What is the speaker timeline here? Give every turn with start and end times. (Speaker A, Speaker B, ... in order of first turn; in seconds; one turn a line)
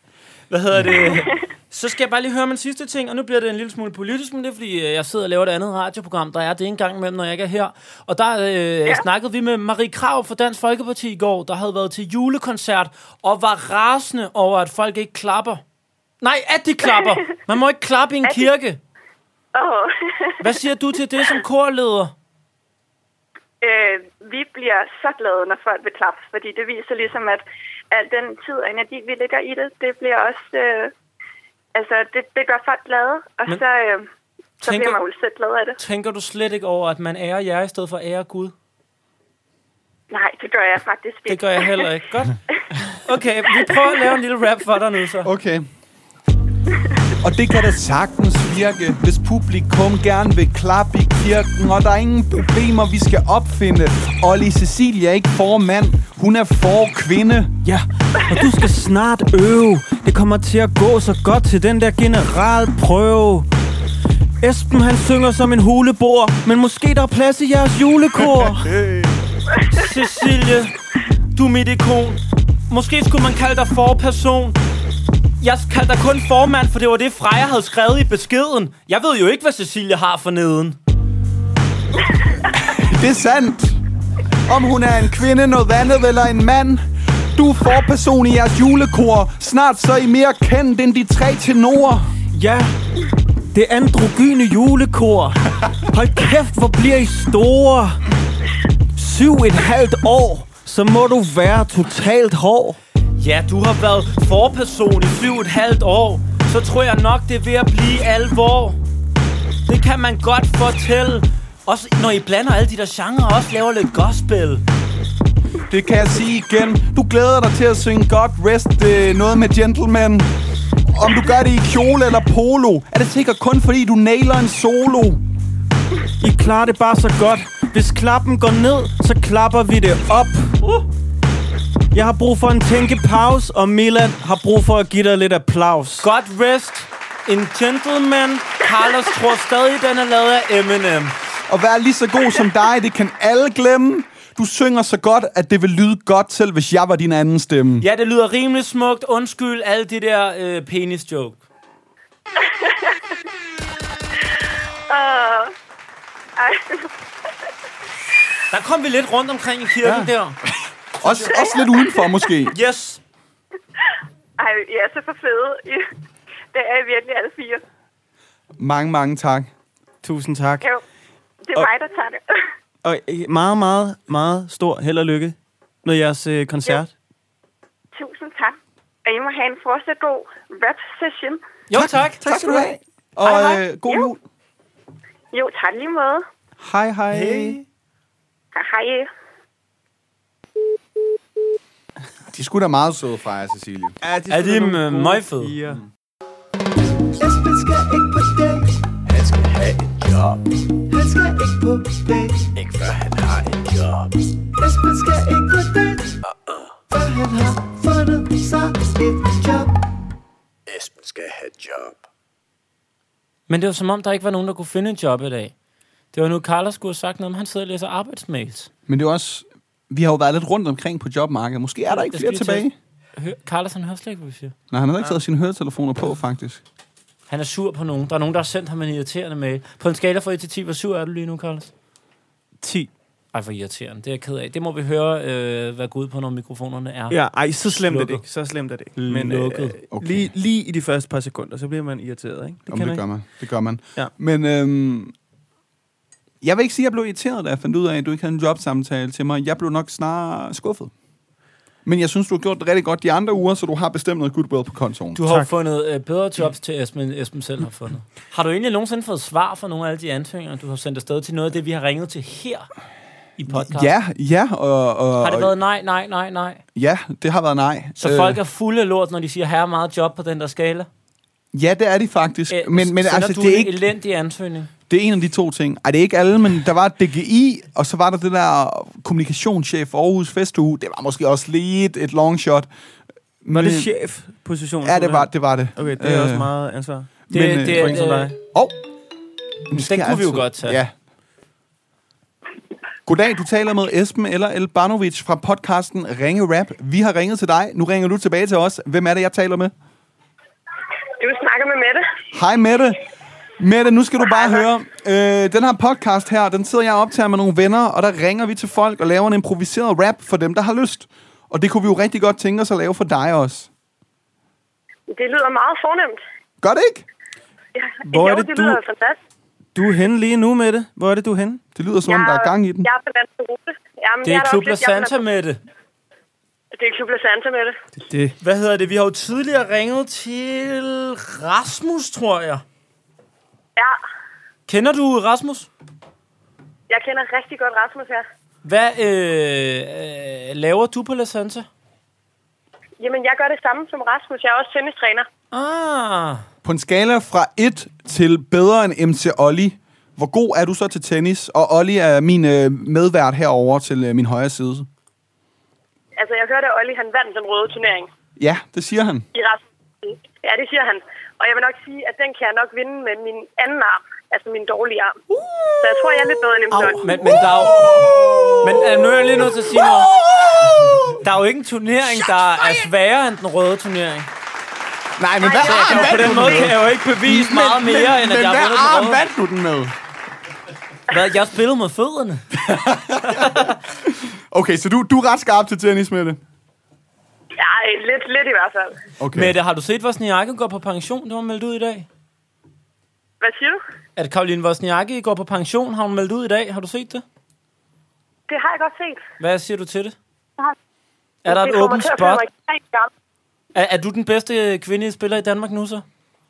Speaker A: 0.5-15.6
Speaker A: 16.2-18.8
Speaker B: 16.8-17.3
Speaker B: 18.2-18.5
Speaker B: 19.6-20.6
Speaker A: 20.4-22.1
Speaker B: 23.6-30.9
Speaker B: 31.7-34.1
Speaker A: 34.6-35.0
Speaker B: 34.6-35.8
Speaker A: 35.8-38.5
Speaker B: 40.1-41.9
Speaker A: 41.3-42.4
Speaker A: 43.0-45.3
Speaker C: 45.2-45.7
Speaker C: 47.2-57.5
Speaker D: 57.6-63.5
Speaker D: 64.4-68.7
Speaker C: 68.2-69.2
Speaker A: 69.7-70.7
Speaker A: 71.3-74.6
Speaker A: 75.4-80.8
Speaker C: 82.5-83.8
Speaker C: 84.5-92.1
Speaker D: 92.3-92.7
Speaker D: 93.5-98.0
Speaker D: 99.0-102.8
Speaker A: 103.2-108.8
Speaker A: 109.7-114.6
Speaker C: 115.7-120.3
Speaker C: 120.9-125.2
Speaker D: 126.2-130.5
Speaker A: 130.6-130.9
Speaker D: 131.9-136.1
Speaker A: 136.0-141.2
Speaker C: 141.5-147.9
Speaker A: 147.8-151.4
Speaker B: 152.4-153.0
Speaker B: 154.9-155.5
Speaker B: 156.4-156.9
Speaker A: 158.5-160.4
Speaker C: 159.8-160.1
Speaker C: 161.0-162.6
Speaker B: 161.3-162.3
Speaker A: 162.5-163.0
Speaker B: 164.4-165.9
Speaker B: 166.5-167.6
Speaker C: 168.6-169.5
Speaker D: 170.0-170.7
Speaker B: 171.5-172.5
Speaker D: 172.8-176.9
Speaker B: 177.9-181.4
Speaker A: 181.7-182.2
Speaker C: 181.8-184.2
Speaker D: 182.2-182.8
Speaker B: 183.2-184.1
Speaker B: 185.3-186.3
Speaker D: 186.6-187.6
Speaker A: 187.1-187.6
Speaker B: 188.6-189.1
Speaker C: 192.3-194.0
Speaker D: 194.0-195.8
Speaker A: 194.3-195.6
Speaker E: 197.2-206.2
Speaker E: 206.9-209.7
Speaker E: 210.7-211.9
Speaker A: 213.5-215.5
Speaker A: 216.1-218.7
Speaker C: 218.9-222.7
Speaker A: 221.9-224.5
Speaker C: 224.7-226.6
Speaker A: 227.3-231.7
Speaker D: 232.6-232.9
Speaker A: 233.3-238.3
Speaker D: 237.1-243.3
Speaker A: 238.9-239.8
Speaker C: 239.9-240.3
Speaker C: 242.7-245.1
Speaker C: 246.4-250.9
Speaker C: 251.8-255.2
Speaker A: 255.2-262.7
Speaker D: 255.2-255.5
Speaker A: 263.4-263.9
Speaker C: 263.5-265.5
Speaker A: 265.2-266.6
Speaker C: 266.8-268.4
Speaker A: 268.0-270.9
Speaker C: 271.5-273.8
Speaker A: 272.5-274.7
Speaker C: 274.9-282.7
Speaker C: 283.4-283.9
Speaker D: 283.6-287.2
Speaker C: 284.8-286.5
Speaker C: 287.3-288.8
Speaker A: 287.3-288.3
Speaker D: 287.7-288.4
Speaker C: 289.7-290.9
Speaker A: 289.7-290.8
Speaker C: 293.1-299.7
Speaker F: 301.2-302.1
Speaker C: 302.3-303.0
Speaker C: 303.6-313.7
Speaker F: 304.3-304.6
Speaker F: 315.1-316.2
Speaker C: 316.6-317.1
Speaker F: 317.8-319.2
Speaker D: 318.1-318.8
Speaker D: 319.8-321.6
Speaker C: 321.8-322.9
Speaker F: 322.1-325.2
Speaker A: 324.2-325.6
Speaker F: 326.7-327.8
Speaker D: 328.0-328.3
Speaker A: 328.4-332.6
Speaker A: 334.7-335.7
Speaker F: 336.9-338.3
Speaker A: 338.6-341.7
Speaker F: 343.0-345.3
Speaker A: 345.5-346.4
Speaker C: 346.6-354.9
Speaker F: 356.2-358.1
Speaker C: 358.4-359.3
Speaker F: 359.3-365.2
Speaker C: 365.4-365.8
Speaker F: 365.8-367.0
Speaker A: 367.0-367.8
Speaker C: 367.1-371.2
Speaker A: 368.6-370.1
Speaker A: 371.2-374.3
Speaker C: 375.2-379.9
Speaker F: 375.4-376.7
Speaker A: 375.6-379.2
Speaker A: 381.1-382.5
Speaker C: 382.5-386.4
Speaker A: 383.3-383.8
Speaker F: 387.6-389.0
Speaker C: 389.2-389.6
Speaker A: 389.3-392.1
Speaker F: 393.4-393.8
Speaker A: 394.2-397.2
Speaker F: 398.5-399.2
Speaker A: 399.4-400.2
Speaker A: 401.4-402.5
Speaker F: 401.5-403.1
Speaker A: 403.7-406.0